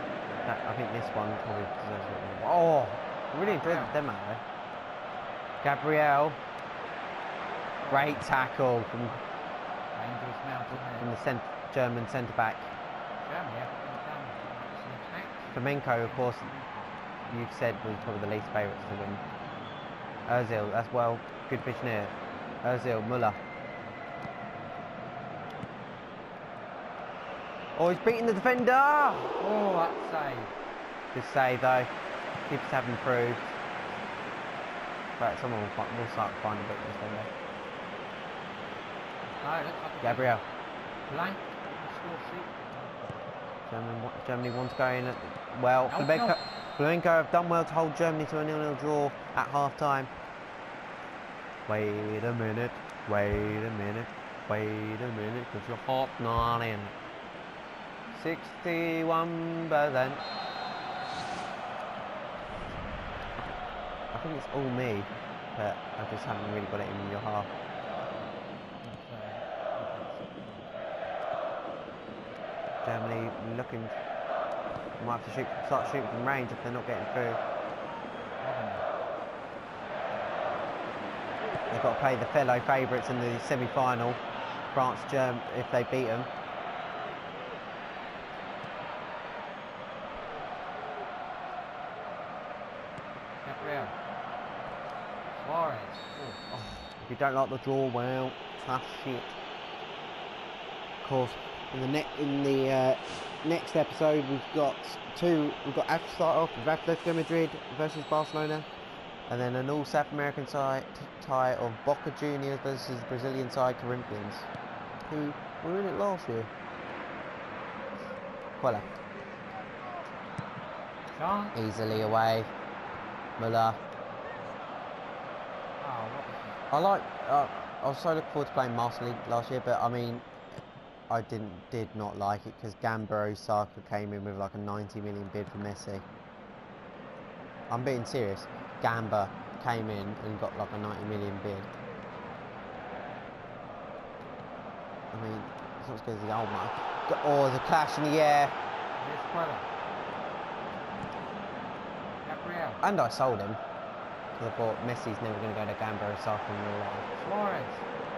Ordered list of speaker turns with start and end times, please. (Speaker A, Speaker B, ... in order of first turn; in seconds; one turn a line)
Speaker A: 0.4-4.4
Speaker B: 3.4-3.9
Speaker A: 5.6-6.4
Speaker B: 7.8-8.2
Speaker A: 7.9-9.2
Speaker B: 9.9-11.1
Speaker A: 10.7-12.7
Speaker B: 13.2-16.7
Speaker A: 15.5-16.5
Speaker A: 17.3-19.2
Speaker A: 20.2-23.4
Speaker A: 27.7-29.3
Speaker B: 29.4-30.5
Speaker A: 31.1-31.9
Speaker A: 32.5-33.5
Speaker A: 35.2-37.3
Speaker B: 39.4-40.4
Speaker A: 40.0-40.4
Speaker B: 41.1-42.5
Speaker A: 43.7-50.1
Speaker B: 45.9-46.4
Speaker A: 51.7-56.9
Speaker A: 58.1-60.2
Speaker A: 64.1-67.5
Speaker B: 68.8-70.7
Speaker A: 72.8-74.0
Speaker A: 75.0-77.4
Speaker B: 78.4-78.9
Speaker A: 81.7-86.3
Speaker B: 93.4-93.9
Speaker B: 95.3-96.6
Speaker A: 97.0-99.4
Speaker A: 101.0-108.7
Speaker A: 109.3-114.5
Speaker A: 115.1-116.5
Speaker A: 118.6-118.9
Speaker B: 121.1-121.6
Speaker A: 121.5-122.5
Speaker A: 123.4-123.8
Speaker B: 125.8-126.6
Speaker A: 126.7-136.0
Speaker A: 137.7-141.7
Speaker A: 145.1-148.5
Speaker B: 149.0-149.7
Speaker B: 152.2-152.8
Speaker A: 152.8-153.6
Speaker A: 154.4-157.1
Speaker B: 157.2-157.8